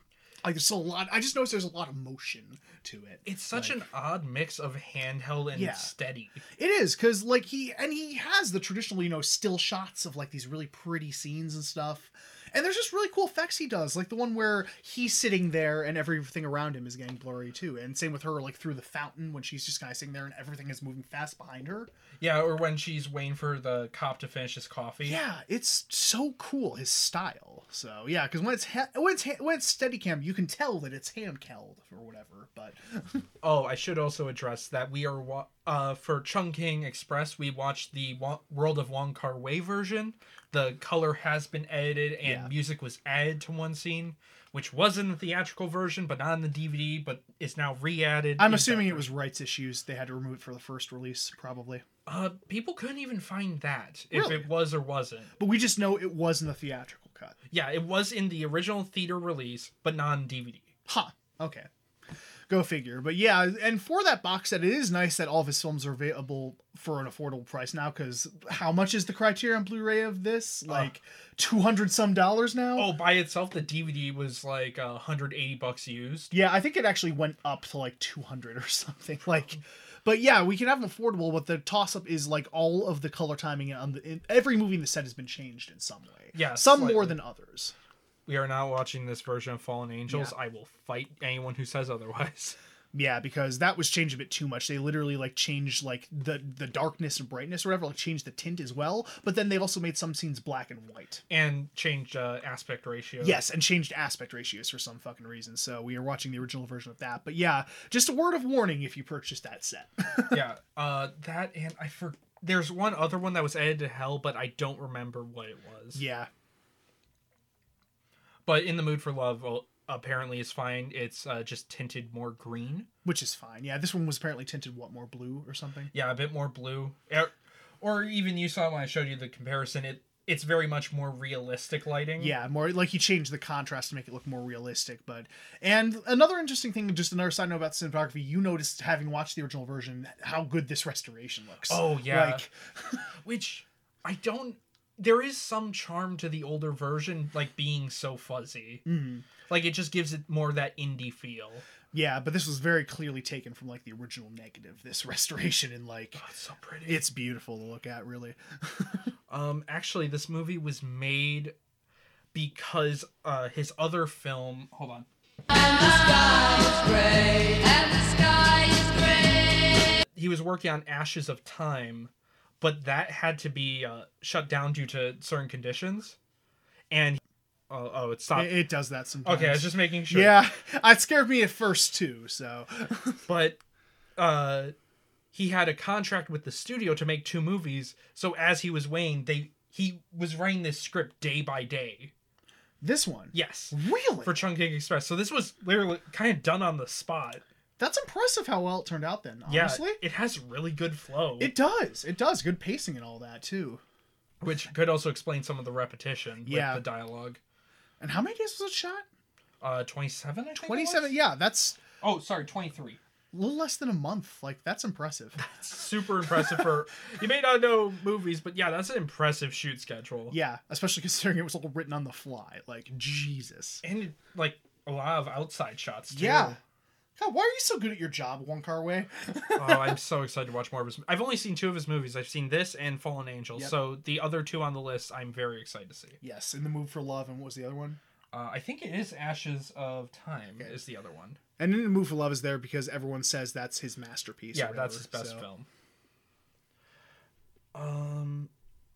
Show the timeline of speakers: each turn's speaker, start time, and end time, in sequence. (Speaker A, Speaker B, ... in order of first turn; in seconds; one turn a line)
Speaker A: 0.4-3.8
Speaker B: 3.2-6.4
Speaker A: 5.5-5.9
Speaker A: 6.5-21.9
Speaker B: 22.2-25.2
Speaker A: 25.0-33.2
Speaker B: 33.4-49.1
Speaker A: 42.2-42.5
Speaker A: 48.4-51.8
Speaker B: 52.0-55.3
Speaker A: 54.1-54.5
Speaker A: 55.4-57.4
Speaker B: 57.5-60.7
Speaker A: 60.9-61.7
Speaker A: 62.5-72.9
Speaker B: 72.8-76.3
Speaker A: 76.3-87.7
Speaker B: 86.3-87.2
Speaker B: 88.3-92.5
Speaker A: 90.1-90.3
Speaker A: 92.9-101.2
Speaker B: 101.3-103.4
Speaker A: 103.2-110.4
Speaker B: 110.3-116.0
Speaker A: 115.9-116.3
Speaker B: 118.5-122.9
Speaker A: 123.0-125.9
Speaker B: 125.9-132.3
Speaker A: 132.2-143.0
Speaker B: 141.7-142.5
Speaker B: 143.2-148.8
Speaker A: 148.8-149.3
Speaker B: 149.5-151.6
Speaker A: 151.9-156.2
Speaker B: 156.2-157.0
Speaker A: 156.9-159.1
Speaker B: 159.3-161.5
Speaker B: 162.3-165.1
Speaker C: 165.5-170.0
Speaker B: 170.1-176.2
Speaker B: 176.9-178.6
Speaker A: 178.3-183.2
Speaker B: 179.2-180.4
Speaker B: 183.3-183.6
Speaker B: 184.2-184.7
Speaker B: 185.3-192.1
Speaker A: 192.8-194.4
Speaker B: 193.3-197.4
Speaker A: 197.8-200.0
Speaker B: 199.5-201.5
Speaker A: 201.4-203.8
Speaker B: 204.4-207.4
Speaker A: 206.4-206.8
Speaker A: 208.0-209.0
Speaker B: 209.6-211.1
Speaker A: 210.5-211.8
Speaker B: 212.0-213.0
Speaker A: 213.3-215.4
Speaker B: 215.4-220.3
Speaker A: 216.4-216.7
Speaker A: 220.3-223.8
Speaker B: 223.8-226.6
Speaker A: 226.1-226.6
Speaker A: 227.2-229.9
Speaker B: 229.6-236.2
Speaker A: 236.2-238.0
Speaker B: 238.3-241.4
Speaker A: 241.6-245.4
Speaker B: 244.5-245.7
Speaker B: 247.7-248.5